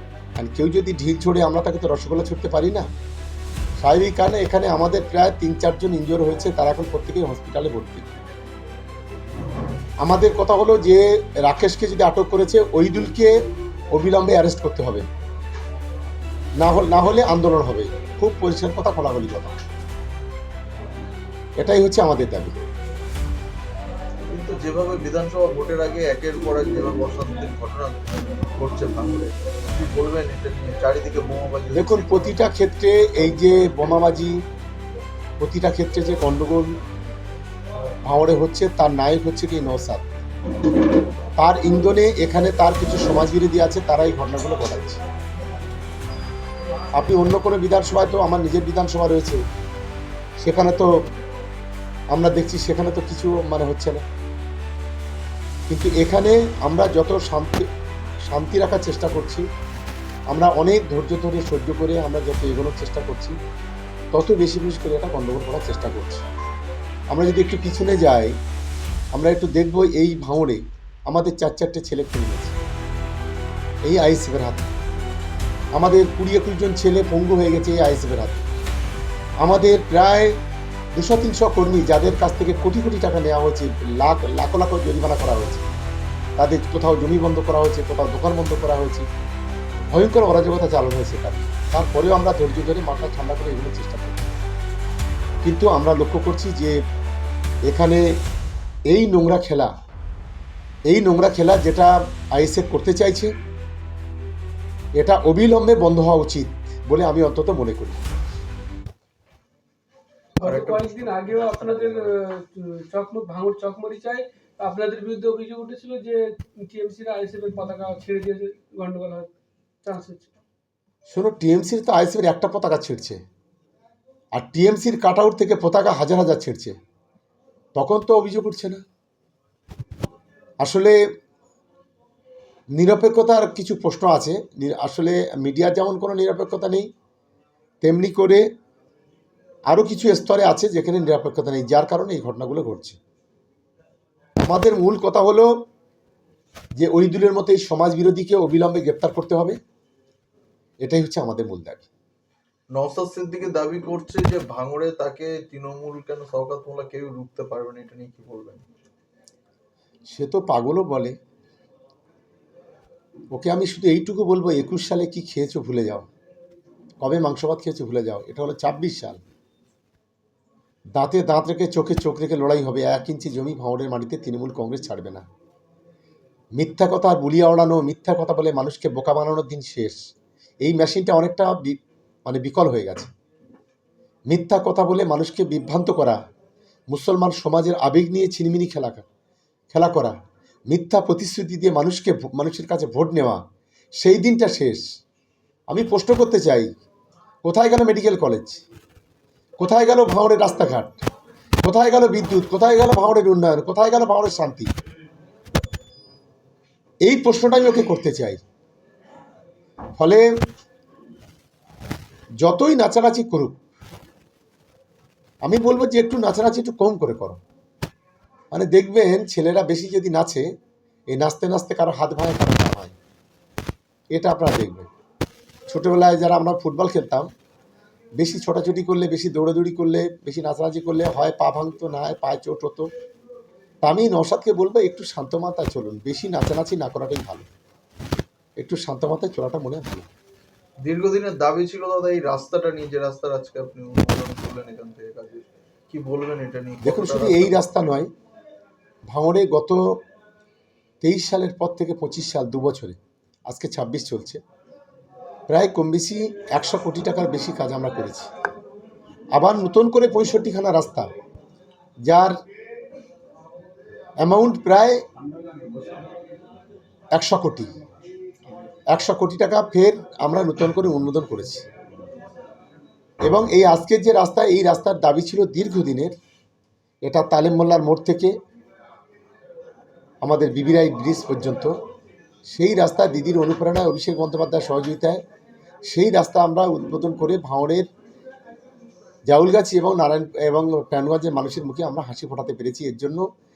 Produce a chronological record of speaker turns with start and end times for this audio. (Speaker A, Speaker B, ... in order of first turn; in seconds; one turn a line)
Speaker A: 0.4-2.9
Speaker A: 3.8-8.1
Speaker A: 10.0-13.3
Speaker A: 13.9-15.1
Speaker A: 16.6-19.6
Speaker A: 21.6-22.5
Speaker B: 24.3-32.4
Speaker A: 31.7-34.4
Speaker A: 35.4-36.7
Speaker A: 38.0-40.0
Speaker A: 41.4-45.0
Speaker A: 47.0-49.4
Speaker A: 50.4-50.9
Speaker A: 52.1-54.0
Speaker A: 55.7-57.7
Speaker A: 58.3-59.5
Speaker A: 60.3-63.4
Speaker A: 64.1-66.2
Speaker A: 67.1-68.3
Speaker A: 69.1-72.6
Speaker A: 73.8-74.7
Speaker A: 75.7-78.5
Speaker A: 79.4-80.4
Speaker A: 80.9-85.6
Speaker A: 86.4-89.0
Speaker A: 89.9-94.3
Speaker A: 95.4-96.8
Speaker A: 97.7-98.1
Speaker A: 98.9-99.7
Speaker A: 100.9-103.3
Speaker A: 105.0-108.1
Speaker C: 110.4-119.3
Speaker B: 110.4-112.2
Speaker C: 119.8-120.3
Speaker A: 121.1-123.2
Speaker A: 124.3-126.8
Speaker A: 127.8-128.8
Speaker A: 130.6-131.0
Speaker A: 132.7-136.9
Speaker A: 137.8-138.4
Speaker A: 139.7-143.0
Speaker A: 144.4-145.5
Speaker A: 146.8-149.6
Speaker A: 150.8-151.9
Speaker B: 152.7-158.6
Speaker A: 160.1-161.2
Speaker A: 163.3-166.1
Speaker A: 167.0-169.2
Speaker A: 170.9-175.2
Speaker A: 176.6-179.9
Speaker A: 180.6-183.1
Speaker A: 184.3-186.2
Speaker A: 186.9-189.1
Speaker A: 189.7-190.2
Speaker A: 190.7-193.4
Speaker A: 194.0-194.8
Speaker A: 195.7-196.7
Speaker A: 197.4-198.6
Speaker A: 199.6-201.0
Speaker A: 201.6-204.7
Speaker A: 207.0-208.4
Speaker A: 210.0-210.3
Speaker A: 212.4-213.6
Speaker A: 215.4-217.4
Speaker A: 218.5-220.4
Speaker A: 221.1-222.9
Speaker A: 224.1-224.9
Speaker A: 225.7-227.3
Speaker A: 228.2-232.9
Speaker A: 233.8-237.5
Speaker A: 238.6-240.1
Speaker B: 240.8-247.6
Speaker A: 246.8-248.1
Speaker A: 249.1-250.0
Speaker A: 251.0-254.4
Speaker A: 255.5-258.3
Speaker A: 259.3-261.1
Speaker A: 262.0-262.4
Speaker A: 264.2-265.0
Speaker A: 267.1-267.7
Speaker A: 268.9-271.6
Speaker A: 273.2-276.1
Speaker A: 277.1-278.3
Speaker A: 280.2-281.7
Speaker A: 282.5-285.2
Speaker A: 285.9-287.9
Speaker A: 289.3-293.2